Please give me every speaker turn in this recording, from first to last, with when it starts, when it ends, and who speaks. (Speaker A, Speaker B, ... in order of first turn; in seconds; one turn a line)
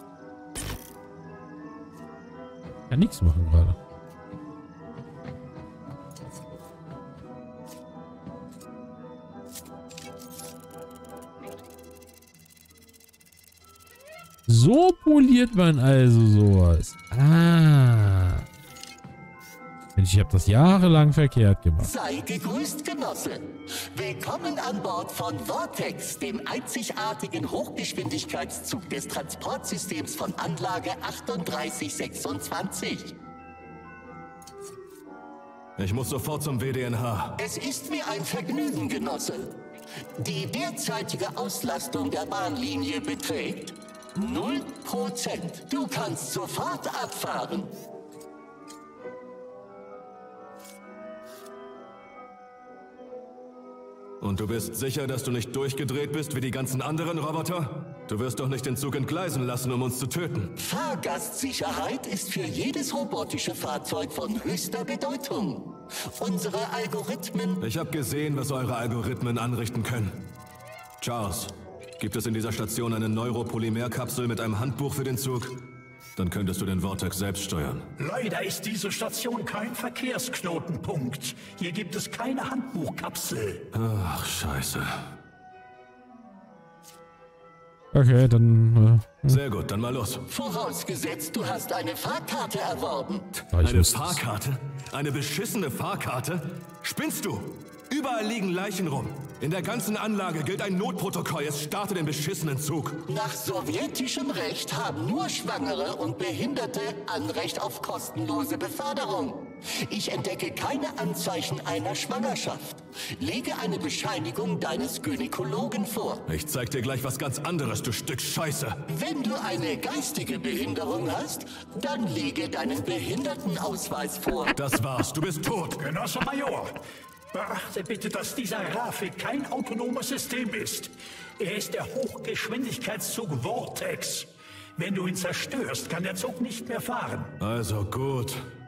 Speaker A: 2.9-3.8
Speaker A: 14.5-18.4
Speaker A: 19.9-21.9
Speaker B: 21.8-33.1
Speaker C: 35.8-37.4
Speaker B: 37.4-39.6
Speaker B: 40.1-47.7
Speaker C: 54.2-60.5
Speaker B: 60.6-67.6
Speaker C: 67.6-70.3
Speaker C: 71.0-75.6
Speaker C: 76.2-77.9
Speaker D: 78.0-83.7
Speaker C: 83.7-85.1
Speaker A: 87.9-89.4
Speaker C: 89.3-90.2
Speaker B: 90.3-93.3
Speaker C: 93.4-103.0
Speaker A: 93.5-94.2
Speaker B: 103.1-116.2
Speaker C: 116.3-118.8
Speaker B: 118.9-124.5
Speaker C: 124.5-125.8
Speaker D: 125.8-137.3
Speaker C: 137.4-138.4